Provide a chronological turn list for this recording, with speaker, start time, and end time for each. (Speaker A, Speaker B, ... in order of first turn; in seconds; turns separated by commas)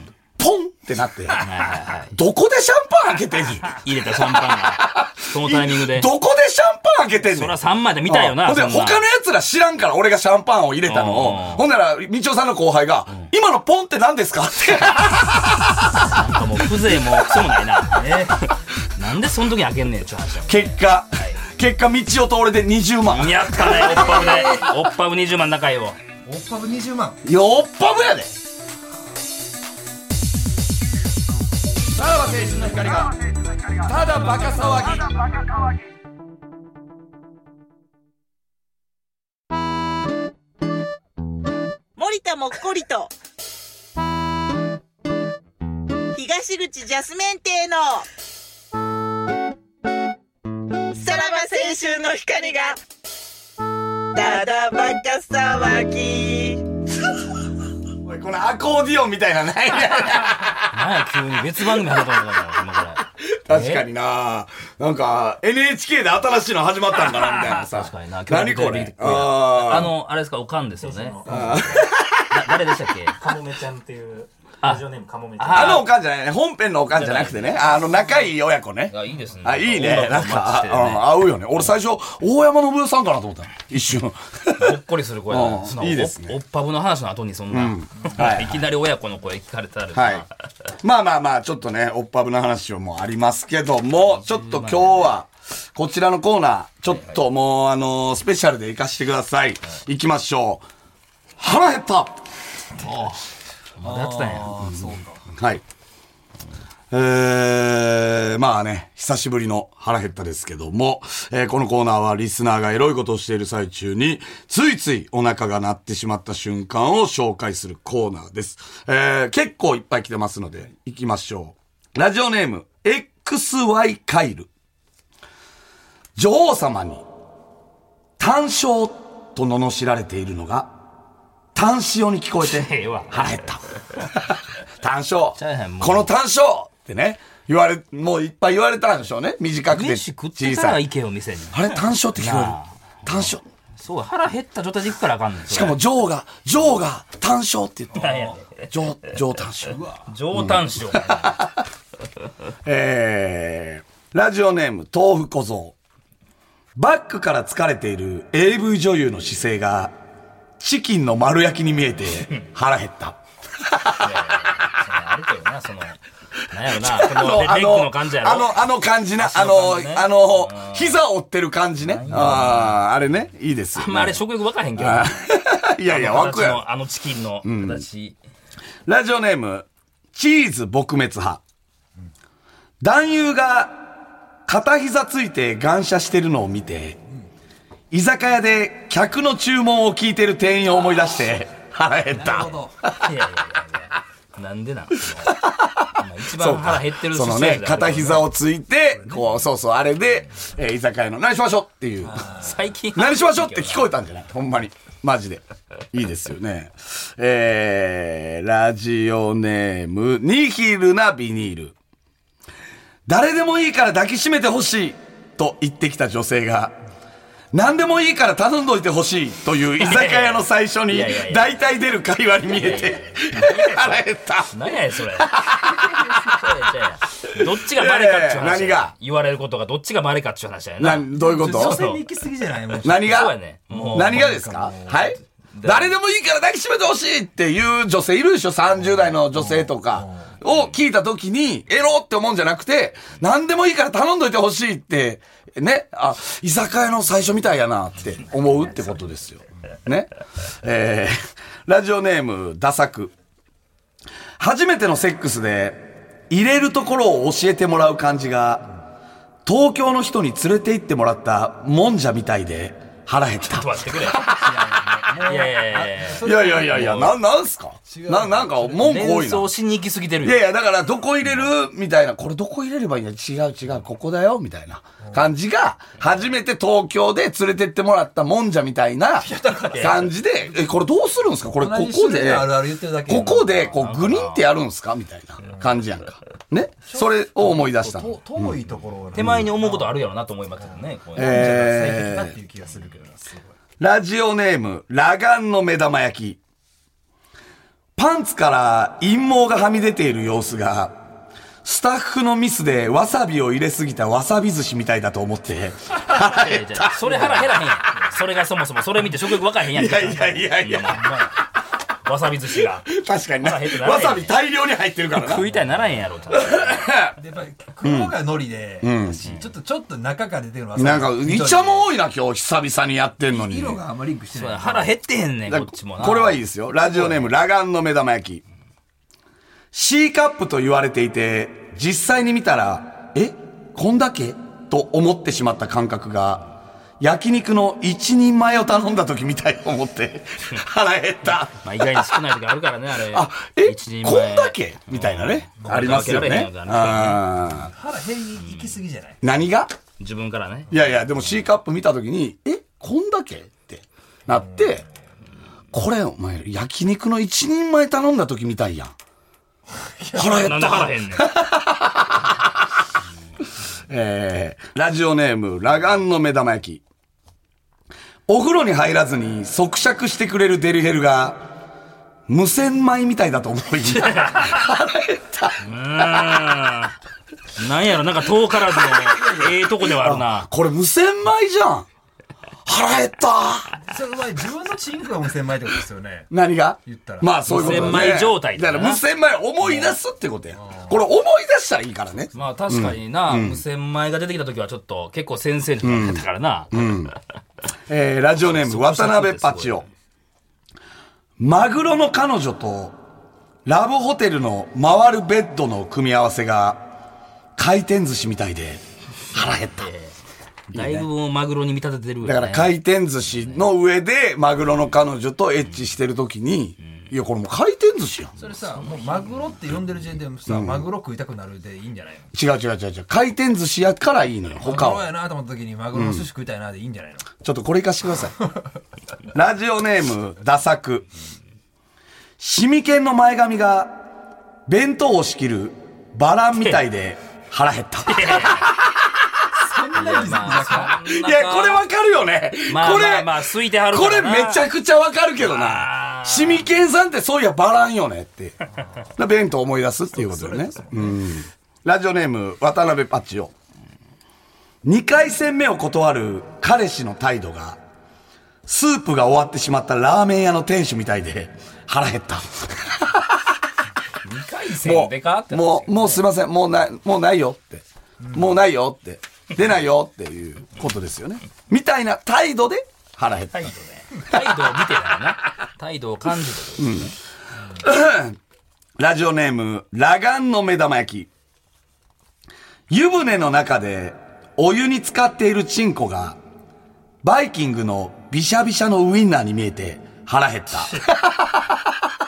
Speaker A: 0.4-1.4, Speaker B: 1.4-2.1, Speaker A: 2.1-16.1, Speaker B: 3.7-6.1, Speaker B: 7.3-9.0, Speaker B: 10.9-11.7, Speaker B: 15.9-21.4, Speaker C: 17.9-18.4, Speaker A: 20.5-24.4, Speaker B: 23.1-26.0, Speaker C: 23.7-24.6, Speaker C: 26.2-27.2, Speaker A: 27.2-28.3, Speaker A: 31.9-33.1, Speaker A: 33.7-35.5, Speaker D: 42.0-43.1, Speaker D: 46.1-48.0, Speaker D: 51.0-52.8, Speaker D: 54.1-56.6, Speaker A: 58.0-60.7, Speaker B: 60.7-63.9, Speaker A: 63.2-69.9, Speaker B: 67.0-73.2, Speaker E: 70.8-71.9, Speaker A: 71.3-72.4, Speaker E: 73.1-75.8, Speaker B: 75.4-75.9, Speaker A: 75.5-86.3, Speaker B: 76.9-77.9, Speaker B: 78.9-81.1, Speaker B: 84.5-90.3, Speaker A: 87.5-88.6, Speaker A: 89.9-90.2, Speaker A: 90.8-100.7, Speaker B: 94.2-95.0, Speaker B: 96.9-97.2, Speaker A: 101.4-102.2, Speaker B: 102.8-103.2, Speaker B: 103.8-104.8, Speaker C: 103.8-105.2, Speaker A: 105.3-105.6, Speaker A: 106.9-124.5, Speaker A: 126.2-127.0, Speaker A: 128.2-130.7, Speaker A: 131.5-140.8, Speaker B: 132.4-133.4, Speaker B: 135.3-136.1, Speaker B: 139.7-145.8, Speaker A: 141.5-143.4, Speaker A: 145.5-149.8, Speaker B: 147.9-148.7, Speaker C: 148.0-148.3, Speaker C: 149.7-150.1, Speaker B: 150.1-151.4, Speaker A: 150.3-151.6, Speaker A: 152.6-155.8, Speaker A: 156.8-159.9, Speaker A: 160.6-164.1, Speaker B: 164.0-168.6, Speaker A: 166.7-174.2, Speaker B: 169.2-171.0, Speaker B: 171.9-172.8, Speaker C: 172.1-172.5, Speaker B: 173.7-175.1, Speaker A: 174.8-176.6, Speaker B: 175.9-178.2, Speaker A: 177.4-177.8, Speaker A: 178.8-181.4, Speaker A: 182.8-187.0, Speaker A: 187.9-193.1, Speaker C: 192.1-192.8, Speaker B: 193.0-195.4, Speaker A: 195.1-202.3, Speaker B: 195.9-198.3, Speaker C: 199.0-199.3, Speaker C: 202.1-202.6, Speaker B: 202.3-203.9, Speaker A: 202.9-211.7, Speaker A: 213.1-216.8, Speaker A: 217.5-226.3, Speaker B: 219.8-221.5, Speaker B: 222.5-225.3, Speaker C: 225.9-226.2, Speaker B: 226.1-232.0, Speaker A: 227.3-228.9, Speaker A: 230.8-231.8, Speaker C: 231.1-233.2, Speaker A: 232.8-233.3, Speaker B: 232.8-234.3, Speaker C: 233.7-235.2, Speaker A: 233.9-253.1, Speaker B: 235.5-235.9, Speaker C: 239.3-240.3, Speaker A: 254.4-258.7, Speaker A: 259.4-264.6, Speaker B: 263.4-264.3, Speaker C: 264.3-267.0, Speaker B: 265.2-267.2, Speaker A: 266.2-269.5, Speaker C: 267.9-269.1, Speaker B: 268.8-270.4, Speaker A: 270.2-288.6, Speaker C: 275.0-275.2, Speaker C: 279.2-280.6, Speaker B: 279.7-280.1, Speaker C: 281.6-283.6, Speaker B: 283.4-284.4, Speaker C: 286.9-289.9, Speaker B: 289.1-291.8, Speaker A: 289.2-289.4, Speaker C: 291.1-293.5, Speaker A: 291.1-292.3, Speaker A: 293.8-296.4, Speaker A: 297.9-301.0, Speaker A: 301.6-307.4, Speaker B: 306.1-311.3, Speaker A: 309.6-311.1, Speaker C: 310.9-311.3, Speaker B: 312.0-312.9, Speaker A: 312.9-315.5, Speaker B: 313.4-314.3, Speaker B: 315.1-316.9, Speaker A: 316.3-317.2, Speaker C: 317.2-321.9, Speaker A: 317.8-318.1, Speaker A: 318.8-319.3, Speaker A: 320.8-323.8, Speaker C: 323.3-324.9, Speaker B: 324.3-326.4, Speaker A: 325.5-328.4, Speaker A: 329.7-336.5, Speaker A: 337.0-342.2, Speaker B: 341.5-347.3, Speaker A: 343.1-347.7, Speaker C: 347.5-349.2, Speaker A: 349.2-349.7, Speaker B: 350.0-350.7, Speaker A: 350.7-354.8, Speaker C: 354.3-354.8, Speaker A: 355.7-358.9, Speaker C: 359.8-360.5, Speaker A: 360.1-362.7, Speaker B: 360.2-361.3, Speaker A: 363.9-366.8, Speaker A: 368.3-371.4, Speaker A: 372.3-375.6, Speaker B: 373.9-374.6, Speaker B: 375.6-376.9, Speaker B: 377.5-380.5, Speaker C: 379.1-379.6, Speaker A: 379.8-381.9, Speaker A: 382.6-383.7, Speaker C: 383.9-386.3, Speaker A: 386.3-393.6, Speaker C: 386.9-388.2, Speaker B: 387.5-389.0, Speaker C: 390.5-390.9, Speaker B: 392.3-397.1, Speaker A: 395.8-397.1, Speaker A: 397.9-399.8, Speaker B: 398.4-399.9, Speaker A: 401.4-403.0, Speaker A: 403.6-406.8, Speaker A: 407.6-409.9, Speaker B: 409.3-410.1, Speaker B: 410.7-412.8, Speaker A: 410.7-411.1, Speaker A: 412.2-418.3, Speaker B: 413.4-413.6, Speaker C: 418.4-422.3, Speaker B: 418.8-419.3, Speaker A: 420.5-420.9, Speaker A: 422.3-425.1, Speaker C: 424.6-427.3, Speaker A: 425.9-426.3, Speaker A: 427.4-428.3, Speaker A: 429.3-431.1, Speaker A: 432.4-434.0, Speaker A: 434.7-439.5, Speaker B: 438.1-438.7, Speaker C: 439.6-441.0, Speaker B: 439.9-441.8, Speaker A: 440.9-448.6, Speaker B: 442.6-444.7, Speaker B: 445.4-446.7, Speaker A: 449.2-453.5, Speaker C: 450.1-451.2, Speaker A: 454.8-457.8, Speaker A: 458.6-463.4, Speaker B: 464.2-466.2, Speaker A: 464.8-473.7, Speaker B: 473.5-477.1, Speaker A: 476.8-477.1, Speaker A: 477.8-478.4, Speaker A: 479.0-481.3, Speaker A: 482.9-486.4, Speaker A: 487.2-492.1